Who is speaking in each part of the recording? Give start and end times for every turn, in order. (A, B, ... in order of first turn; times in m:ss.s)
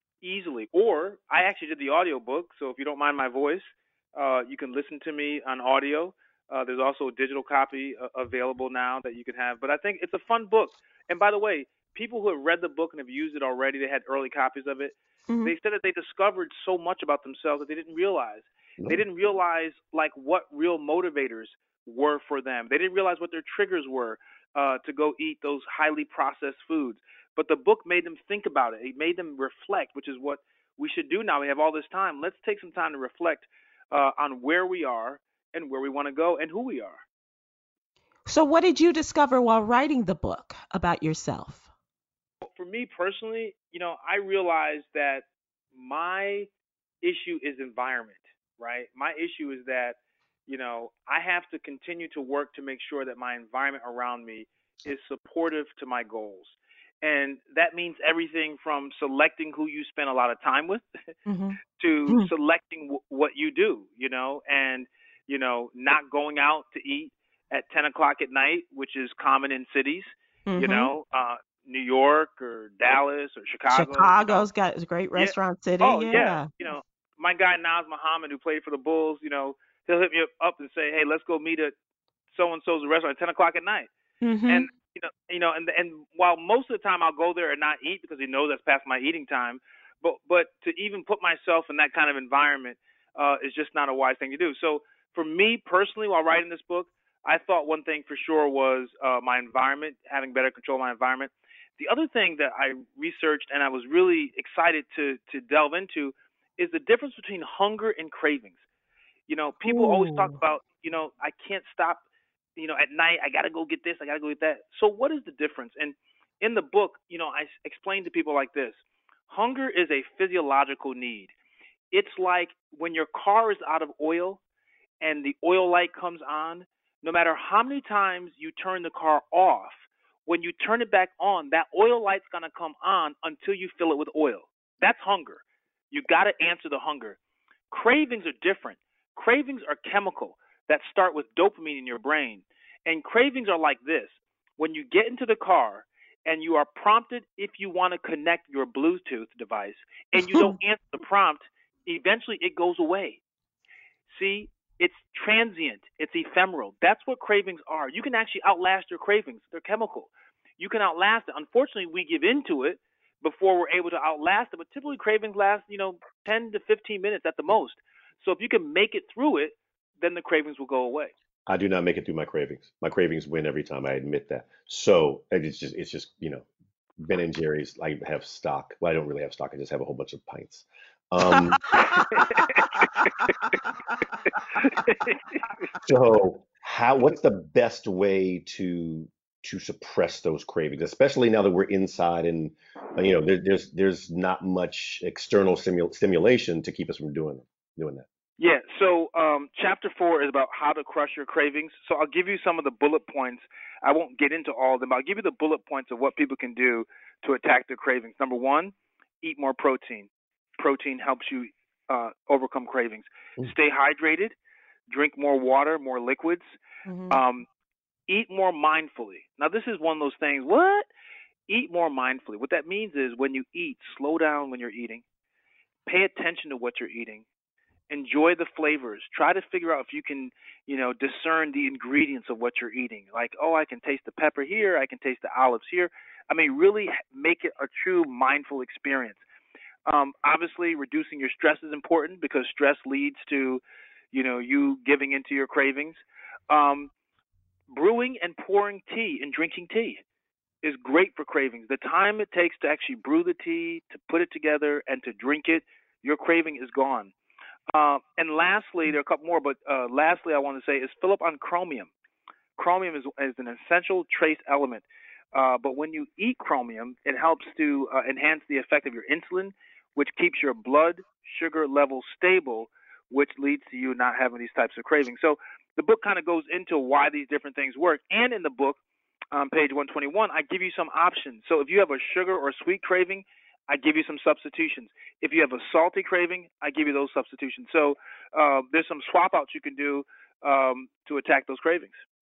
0:00.2-0:37.0 A
0:15.3-0:15.5 B
0:38.3-0:41.7 B
0:42.4-0:46.5 A
0:47.0-1:00.8 A
1:01.3-1:02.3 B
1:01.7-1:14.5 A
1:10.5-1:10.9 B
1:13.7-1:16.5 B
1:15.2-1:21.7 A
1:22.3-1:23.9 A
1:24.2-1:24.7 B
1:24.5-1:48.6 A
1:49.3-1:52.0 A
1:49.7-1:50.4 B
1:52.6-2:01.3 A
2:01.9-2:04.4 A
2:05.0-2:17.2 A
2:17.7-2:33.2 A
2:30.2-2:30.6 B
2:34.1-2:51.1 A
2:51.5-2:56.5 C
2:57.0-3:01.8 C
3:01.7-3:02.6 B
3:01.9-3:03.3 A
3:04.6-3:05.5 A
3:05.8-3:18.1 C
3:18.4-3:34.3 A
3:34.9-3:36.4 A
3:36.9-3:37.2 B
3:37.1-3:37.5 A
3:38.1-3:40.8 A
3:41.5-3:45.0 A
3:45.9-3:47.2 A
3:47.9-3:59.2 A
3:59.9-4:06.9 A
4:07.7-4:10.0 A
4:10.6-4:17.1 A
4:17.7-4:21.9 A
4:22.6-4:38.8 A
4:39.3-4:52.0 A